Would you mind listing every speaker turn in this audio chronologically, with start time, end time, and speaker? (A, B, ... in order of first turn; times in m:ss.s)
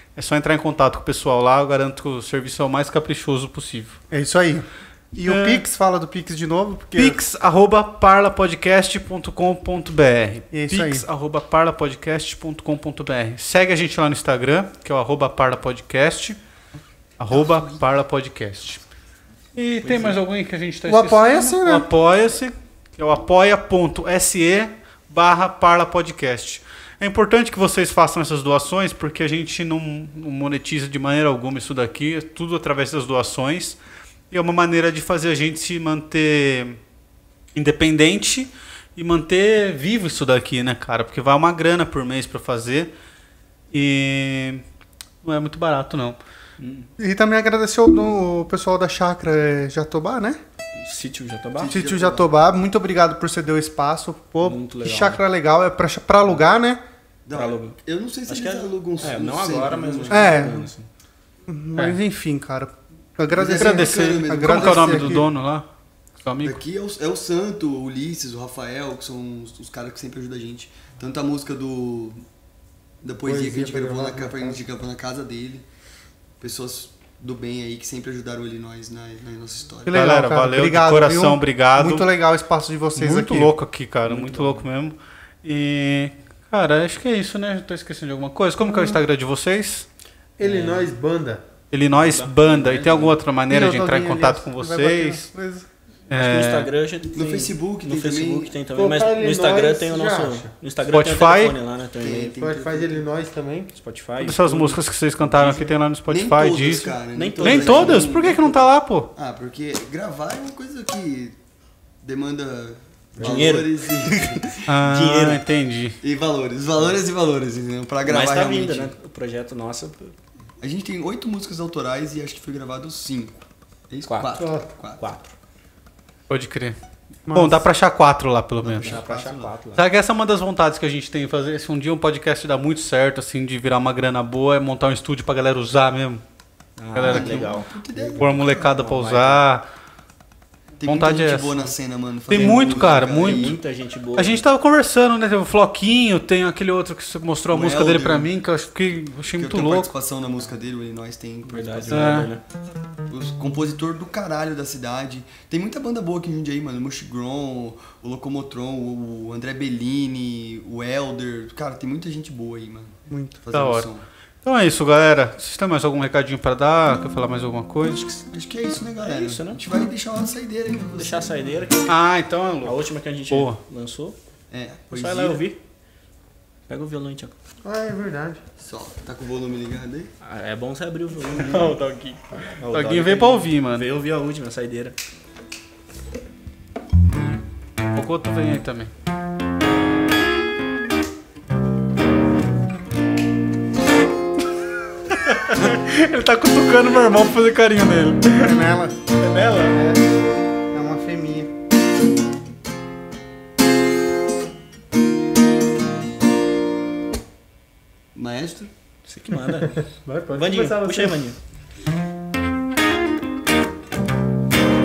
0:00.2-0:04.0 A
0:04.1-0:07.2 B
0:05.2-0:05.6 A
0:06.9-0:16.4 A
0:10.5-0:11.0 B
0:17.2-0:18.8 A
0:19.6-0:33.8 A
0:19.8-0:20.2 C
0:20.9-0:21.9 B
0:34.3-0:36.8 A
0:37.5-0:42.9 A
0:43.7-0:44.6 A
0:45.2-0:46.2 A
0:46.6-0:46.9 C
0:47.0-0:50.4 B
0:50.8-0:51.8 C
0:51.6-0:52.3 D
0:51.7-0:56.8 B
0:54.4-0:55.2 C
0:57.3-1:00.4 D
0:57.3-0:57.8 C
0:58.3-1:00.9 C
1:00.1-1:00.7 B
1:01.5-1:05.3 B
1:03.3-1:05.2 D
1:03.4-1:05.6 A
1:06.2-1:06.6 A
1:06.4-1:12.2 D
1:13.0-1:15.6 D
1:13.2-1:14.6 E
1:16.4-1:20.0 D
1:19.9-1:23.5 B
1:19.9-1:22.1 A
1:23.0-1:29.8 A
1:24.0-1:24.7 C
1:28.6-1:29.0 B
1:30.4-1:31.4 E
1:30.4-1:30.9 C
1:31.7-1:35.3 A
1:32.0-1:33.2 C
1:33.5-1:35.6 B
1:36.1-1:36.7 A
1:36.1-1:42.8 C
1:37.1-1:38.5 D
1:38.7-1:40.5 E
1:40.9-1:41.6 A
1:42.0-1:42.9 D
1:42.1-1:43.7 E
1:43.7-1:45.7 C
1:44.2-1:49.1 A
1:46.1-1:48.4 D
1:47.1-1:48.6 C
1:49.2-1:51.4 D
1:52.0-1:54.6 D
1:53.2-1:53.6 E
1:53.2-1:55.4 C
1:54.6-1:56.0 A
1:56.0-1:58.9 D
1:58.0-2:00.1 C
2:00.6-2:05.0 D
2:04.0-2:04.4 C
2:04.4-2:04.7 E
2:05.0-2:05.3 C
2:06.3-2:06.8 A
2:07.3-2:07.6 B
2:07.3-2:09.0 A
2:08.6-2:09.5 D
2:08.8-2:09.8 C
2:09.7-2:16.2 A
2:16.8-2:19.4 C
2:16.9-2:17.6 A
2:17.0-2:18.6 D
2:18.2-2:19.6 A
2:20.8-2:23.6 D
2:20.8-2:21.6 A
2:22.3-2:23.6 A
2:22.3-2:24.4 C
2:24.2-2:29.9 A
2:27.5-2:28.3 D
2:29.4-2:32.3 D
2:31.4-2:32.4 C
2:31.9-2:32.3 A
2:33.1-2:42.9 D
2:43.1-2:43.4 B
2:43.4-2:44.0 D
2:43.5-2:43.9 A
2:44.4-2:48.2 A
2:48.3-2:51.3 D
2:49.0-2:49.6 C
2:50.9-2:52.0 C
2:51.9-2:53.6 A
2:52.6-2:54.2 C
2:54.5-2:55.4 D
2:54.9-2:55.6 C
2:56.7-2:57.3 C
2:57.6-2:58.4 E
2:58.6-3:00.1 D
3:00.2-3:01.8 C
3:01.4-3:03.9 A
3:02.6-3:04.9 C
3:07.9-3:08.9 A
3:15.1-3:18.6 A
3:18.4-3:19.0 B
3:19.2-3:20.0 A
3:20.7-3:21.5 B
3:28.1-3:28.7 D
3:29.0-3:31.4 C
3:29.7-3:31.2 E